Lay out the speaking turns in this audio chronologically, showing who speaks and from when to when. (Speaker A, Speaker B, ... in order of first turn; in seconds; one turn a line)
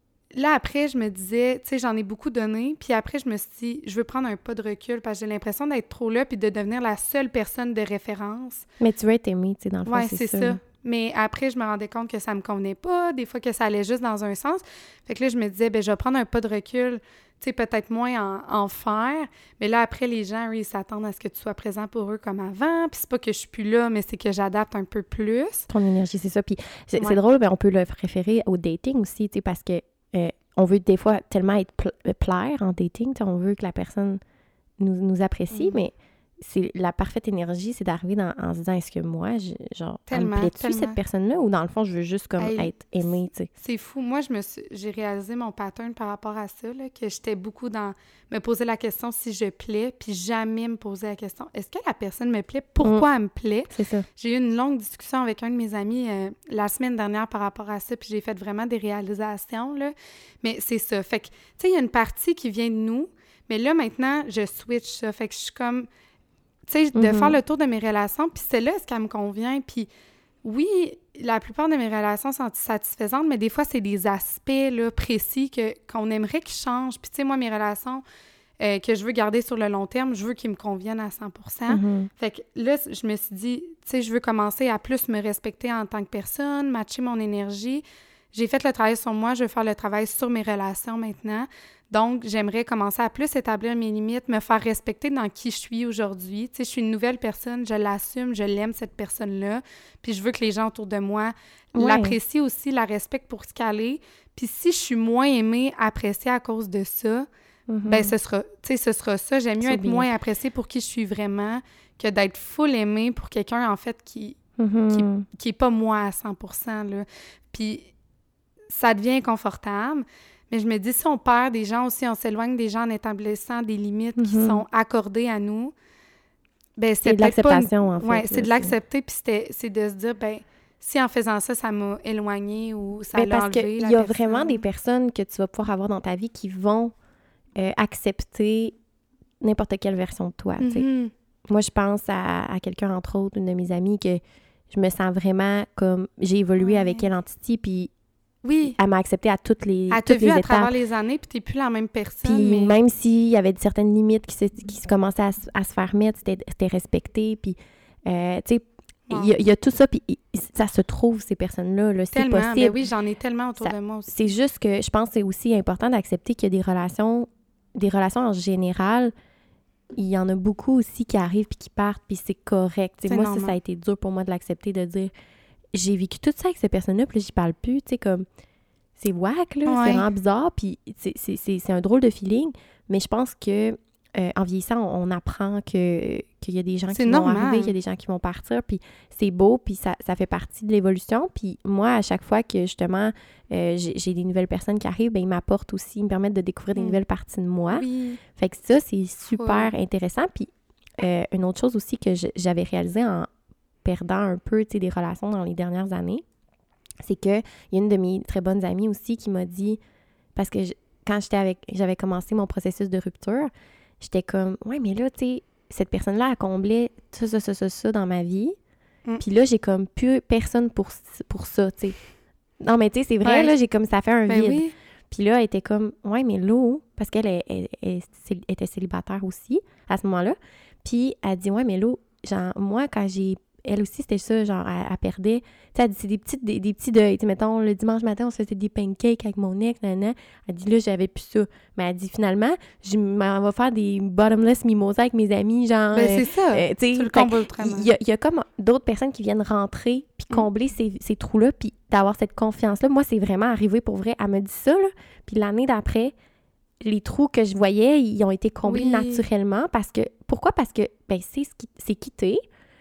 Speaker A: 0.3-8.7
Speaker B: 8.8-10.6
Speaker A: 9.9-25.7
Speaker B: 25.7-34.2
Speaker B: 34.8-43.5
Speaker A: 35.5-35.8
Speaker A: 40.1-41.0
Speaker A: 42.4-42.7
Speaker A: 43.5-65.9
Speaker B: 53.7-54.1
Speaker A: 66.7-69.9
Speaker B: 66.9-67.4
Speaker A: 70.4-78.0
Speaker A: 78.6-107.3
Speaker B: 81.7-82.1
Speaker B: 101.8-102.2
Speaker B: 107.7-108.1
Speaker A: 107.8-114.4
Speaker B: 109.6-110.1
Speaker B: 114.6-115.2
Speaker A: 114.9-117.9
Speaker A: 118.7-125.7
Speaker B: 124.2-124.6
Speaker A: 126.8-134.6
Speaker B: 127.0-128.7
Speaker B: 133.1-136.9
Speaker B: 137.6-138.8
Speaker B: 139.4-140.8
Speaker A: 140.6-141.1
Speaker B: 141.5-147.9
Speaker A: 146.6-147.0
Speaker A: 148.4-148.8
Speaker B: 148.7-150.7
Speaker A: 149.9-152.8
Speaker B: 152.2-162.7
Speaker A: 159.1-159.3
Speaker A: 162.1-164.1
Speaker B: 163.6-169.1
Speaker B: 169.9-175.1
Speaker A: 173.1-173.6
Speaker B: 175.7-178.2
Speaker B: 179.0-203.3
Speaker A: 179.7-180.1
Speaker A: 186.9-187.7
Speaker A: 197.7-198.2
Speaker A: 199.3-199.7
Speaker B: 203.8-206.2
Speaker B: 207.0-209.8
Speaker B: 210.3-218.5
Speaker B: 219.2-222.0
Speaker B: 222.6-256.1
Speaker A: 223.2-223.5
Speaker A: 224.3-224.7
Speaker A: 245.9-247.9
Speaker B: 256.8-262.4
Speaker A: 258.6-259.2